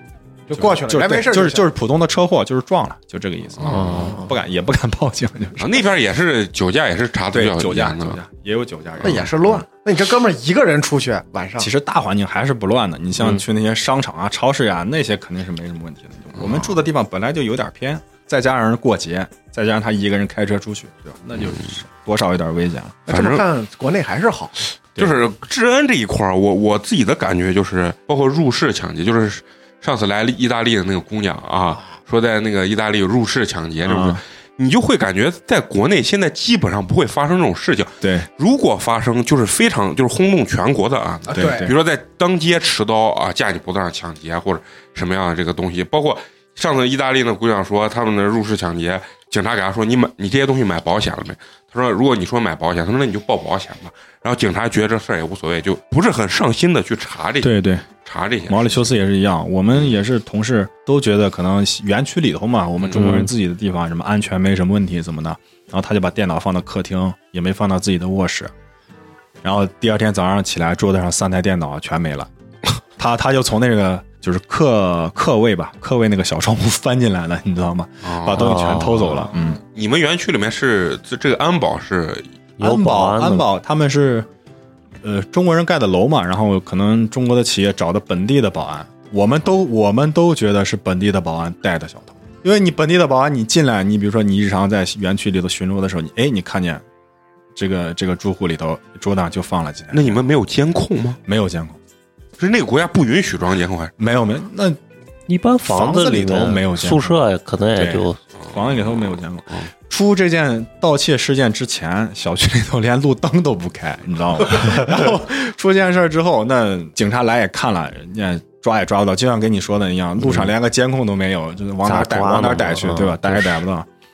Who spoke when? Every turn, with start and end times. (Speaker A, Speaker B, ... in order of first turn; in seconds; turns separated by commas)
Speaker A: 0.5-1.7, Speaker B: 0.5-5.8, Speaker C: 3.6-4.1, Speaker D: 3.6-4.3, Speaker C: 5.6-8.2, Speaker B: 7.3-9.6, Speaker C: 9.0-9.3, Speaker A: 9.0-11.7, Speaker B: 11.6-23.1, Speaker C: 16.4-16.7, Speaker A: 23.1-24.6, Speaker C: 23.1-23.4, Speaker B: 25.0-25.2, Speaker C: 25.0-58.9, Speaker B: 33.8-34.2, Speaker B: 38.0-38.3, Speaker B: 41.3-41.8, Speaker A: 41.3-41.7, Speaker B: 57.4-57.9, Speaker B: 58.5-68.5, Speaker C: 62.8-63.2, Speaker D: 63.0-63.3, Speaker B: 69.4-72.3, Speaker B: 73.0-79.6, Speaker C: 78.0-78.6, Speaker D: 78.3-79.3, Speaker C: 79.7-82.2, Speaker D: 82.6-83.5, Speaker B: 82.6-84.3, Speaker B: 85.0-96.8, Speaker B: 97.5-100.2, Speaker C: 99.9-101.2, Speaker B: 101.3-101.8, Speaker C: 102.4-103.9, Speaker B: 104.0-104.8, Speaker D: 105.3-108.2, Speaker B: 105.7-107.2, Speaker B: 107.8-123.9, Speaker C: 108.4-109.7, Speaker D: 121.8-123.6